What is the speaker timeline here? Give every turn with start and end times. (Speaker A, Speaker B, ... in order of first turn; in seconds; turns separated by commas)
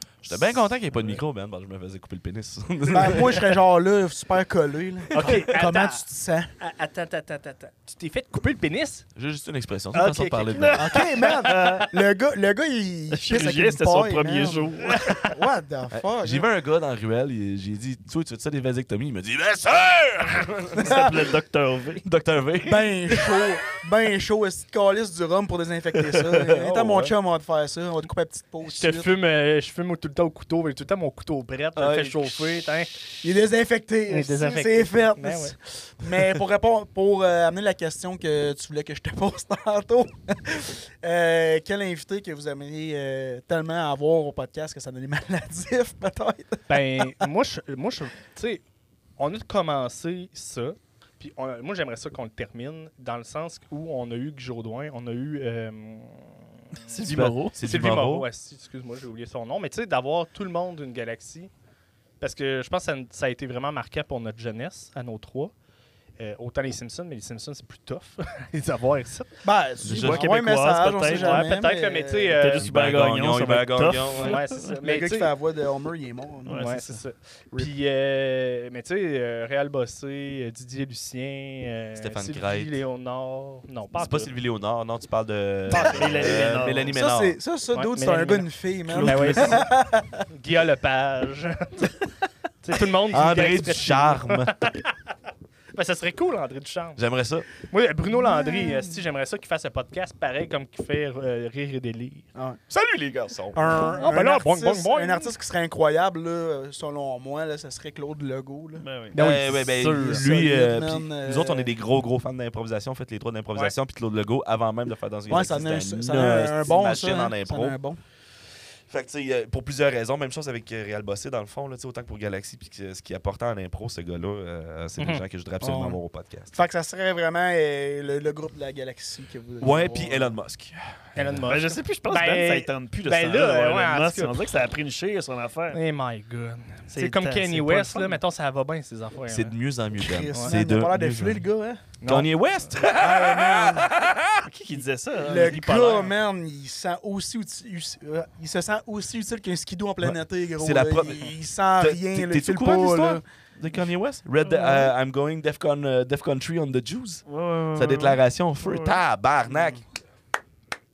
Speaker A: 0.2-3.5, Speaker B: 2.9-6.5, Speaker C: 5.1-6.0, Speaker C: 6.6-9.0, Speaker A: 9.1-11.0, Speaker C: 9.9-11.4, Speaker D: 10.5-12.0, Speaker B: 10.8-16.4, Speaker D: 13.1-15.2, Speaker C: 14.9-15.3, Speaker A: 15.9-21.0, Speaker D: 20.8-22.1, Speaker B: 20.8-21.2, Speaker A: 22.0-23.4, Speaker B: 22.6-29.1, Speaker A: 26.4-27.1, Speaker C: 28.6-33.0, Speaker A: 31.8-32.4, Speaker B: 33.2-47.2, Speaker C: 34.1-35.5, Speaker C: 46.7-48.6, Speaker C: 49.2-56.9, Speaker D: 56.8-57.5, Speaker A: 57.0-58.2, Speaker C: 57.6-61.5, Speaker C: 62.2-65.5, Speaker C: 66.2-69.3, Speaker B: 69.4-72.4, Speaker A: 69.8-70.3, Speaker D: 69.8-71.6, Speaker C: 71.0-72.7, Speaker D: 72.3-75.0, Speaker A: 72.6-74.4, Speaker C: 74.1-75.3, Speaker B: 74.8-76.8, Speaker D: 76.4-77.0, Speaker C: 76.5-84.3, Speaker A: 82.0-82.8, Speaker A: 83.9-87.4, Speaker D: 85.7-87.0, Speaker B: 85.8-90.2, Speaker C: 87.7-89.7, Speaker A: 89.0-89.5, Speaker C: 90.3-92.0, Speaker C: 92.6-94.9, Speaker A: 93.1-94.5, Speaker C: 95.7-97.0, Speaker A: 97.0-97.5, Speaker C: 97.6-102.3, Speaker B: 98.1-98.8, Speaker A: 102.7-103.9, Speaker B: 103.5-111.7, Speaker C: 103.9-105.3, Speaker D: 108.8-109.2, Speaker C: 109.1-110.2, Speaker A: 109.1-117.8, Speaker B: 115.3-118.0, Speaker A: 118.9-126.6, Speaker C: 125.0-125.2, Speaker B: 125.6-126.0, Speaker B: 126.5-130.3, Speaker A: 129.6-131.4, Speaker C: 131.2-134.4, Speaker D: 131.5-135.8, Speaker C: 135.7-139.5, Speaker D: 136.9-138.2, Speaker A: 139.3-141.4, Speaker B: 140.0-141.9, Speaker C: 140.3-140.6, Speaker C: 142.0-142.8, Speaker A: 142.0-144.5, Speaker D: 142.9-143.9, Speaker D: 144.4-146.1, Speaker B: 145.2-153.2, Speaker A: 150.0-159.8, Speaker D: 154.5-154.9, Speaker D: 157.2-159.0, Speaker B: 159.5-159.8